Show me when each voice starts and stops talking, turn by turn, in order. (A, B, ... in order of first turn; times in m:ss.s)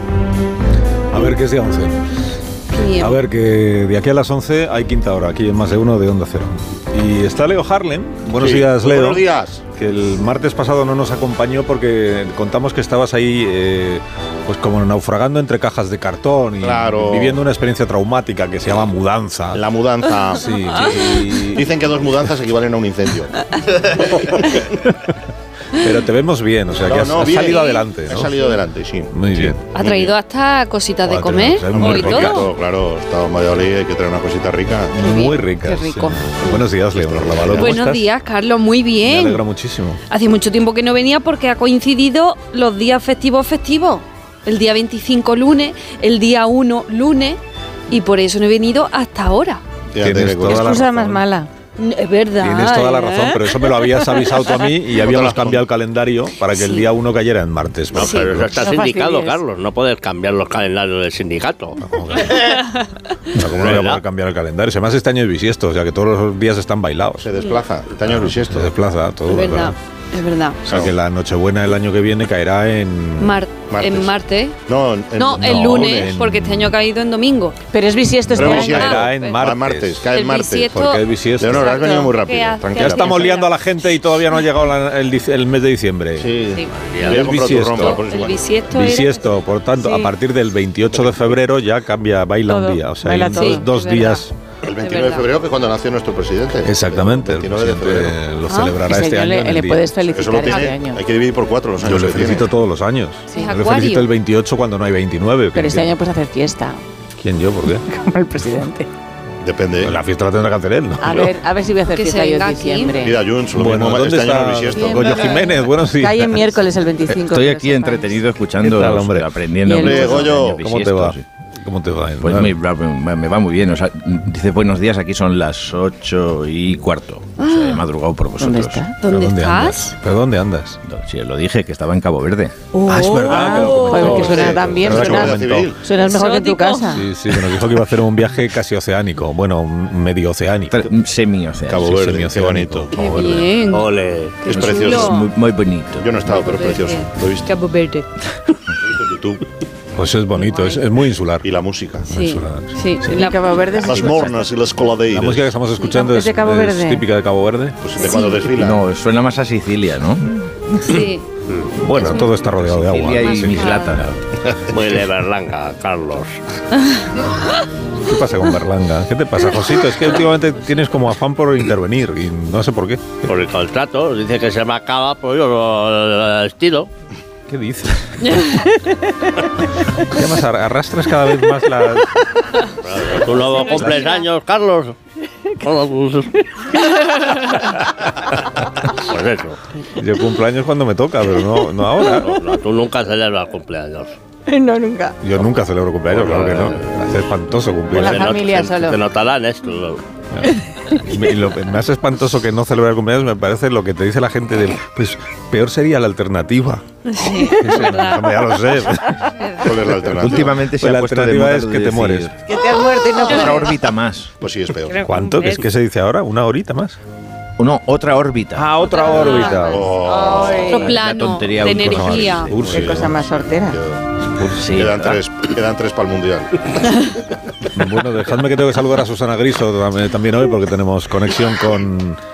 0:01.1-0:02.0 A
0:02.7-0:03.2 B
0:03.0-0:19.6 A
0:08.3-0:09.6 C
0:16.6-0:17.4 C
0:19.5-0:23.3 C
0:20.4-0:22.3 A
0:23.9-0:24.6 C
0:25.8-0:28.3 A
0:26.8-0:30.1 C
0:29.1-0:29.8 A
0:29.7-0:32.5 B
0:31.1-0:32.5 A
0:31.7-0:35.0 C
0:34.9-0:38.1 A
0:35.0-0:36.4 B
0:36.9-0:37.8 C
0:37.5-0:39.4 B
0:39.1-0:40.0 A
0:40.1-0:49.6 B
0:49.9-0:50.6 C
0:50.0-0:51.2 A
0:50.4-0:51.5 D
0:51.8-0:54.0 B
0:52.4-0:58.5 A
0:54.9-0:55.7 C
0:56.5-0:56.9 B
0:57.9-0:58.4 B
0:58.0-1:01.8 E
0:58.6-0:59.4 D
1:01.8-1:02.6 A
1:03.3-1:07.3 A
1:03.6-1:03.9 C
1:03.6-1:04.0 E
1:07.2-1:08.8 C
1:08.0-1:09.8 A
1:09.3-1:10.6 B
1:10.7-1:13.4 A
1:10.7-1:11.0 C
1:13.2-1:14.6 B
1:13.7-1:14.2 C
1:14.7-1:16.2 C
1:15.2-1:17.6 B
1:15.4-1:16.8 A
1:17.7-1:18.9 D
1:18.3-1:20.1 A
1:18.3-1:20.8 C
1:18.4-1:19.4 B
1:20.1-1:24.0 B
1:20.7-1:22.1 A
1:21.4-1:23.5 C
1:22.8-1:26.4 A
1:26.2-1:28.6 C
1:26.5-1:30.1 B
1:26.9-1:27.2 E
1:27.1-1:28.1 A
1:28.7-1:34.3 A
1:32.5-1:33.7 D
1:33.3-1:35.3 B
1:34.6-1:38.2 C
1:36.6-1:39.9 A
1:38.5-1:38.8 B
1:38.8-1:41.0 D
1:40.1-1:42.5 C
1:41.8-1:45.9 A
1:43.3-1:44.1 B
1:45.5-1:46.8 D
1:47.2-1:47.9 A
1:47.9-1:48.9 D
1:49.4-1:50.0 C
1:49.8-1:51.2 A
1:51.0-1:53.2 D
1:51.9-1:53.0 B
1:53.0-1:55.4 C
1:53.5-1:56.6 A
1:54.8-1:58.2 D
1:57.1-2:01.2 F
1:58.6-1:59.4 A
1:59.6-2:00.3 D
1:59.7-2:00.7 C
2:00.6-2:02.6 A
2:02.2-2:08.9 F
2:07.4-2:07.8 B
2:08.4-2:09.0 D
2:09.0-2:09.9 B
2:09.1-2:10.8 A
2:10.8-2:12.6 F
2:12.7-2:14.5 B
2:12.9-2:15.7 A
2:13.0-2:17.1 D
2:14.0-2:15.8 C
2:16.0-2:17.0 B
2:16.9-2:20.9 A
2:20.7-2:22.0 F
2:21.7-2:23.2 C
2:21.8-2:23.5 A
2:22.9-2:23.9 B
2:23.7-2:24.4 E
2:24.4-2:25.3 B
2:24.4-2:25.2 C
2:25.0-2:26.2 F
2:26.0-2:27.5 C
2:26.2-2:28.6 B
2:28.8-2:29.4 C
2:30.0-2:31.5 A
2:30.4-2:30.8 B
2:31.4-2:32.1 C
2:32.0-2:32.8 A
2:32.1-2:34.2 B
2:33.0-2:34.5 D
2:33.8-2:35.5 C
2:35.1-2:37.8 A
2:35.8-2:37.1 D
2:37.8-2:38.8 C
2:38.5-2:40.3 F
2:40.8-2:41.2 B
2:41.8-2:44.2 A
2:42.5-2:44.1 F
2:43.2-2:44.0 B
2:44.7-2:46.4 E
2:48.1-2:53.3 A
2:53.3-2:56.9 E
2:57.5-2:58.6 A
3:00.1-3:02.1 A
3:02.8-3:05.0 E
3:03.6-3:04.1 A
3:03.9-3:04.2 B
3:05.6-3:06.5 E
3:09.0-3:09.6 E
3:10.0-3:12.4 A
3:12.0-3:12.3 D
3:12.2-3:14.2 E
3:14.5-3:15.2 D
3:15.2-3:18.5 A
3:16.1-3:17.0 E
3:17.9-3:19.0 D
3:17.9-3:20.0 E
3:20.3-3:26.8 A
3:27.1-3:28.6 B
3:27.5-3:32.4 A
3:29.4-3:29.7 B
3:29.6-3:30.7 C
3:30.2-3:32.3 F
3:32.5-3:33.8 D
3:33.3-3:33.6 B
3:33.3-3:34.3 F
3:34.4-3:35.0 C
3:34.9-3:35.6 B
3:35.1-3:37.0 A
3:37.6-3:38.8 F
3:38.5-3:39.9 A
3:38.8-3:39.9 B
3:39.6-3:40.7 C
3:40.0-3:41.0 D
3:40.6-3:42.5 B
3:40.8-3:42.7 F
3:42.0-3:43.1 A
3:42.5-3:46.8 C
3:42.6-3:43.8 D
3:44.5-3:45.2 F
3:47.8-3:52.2 A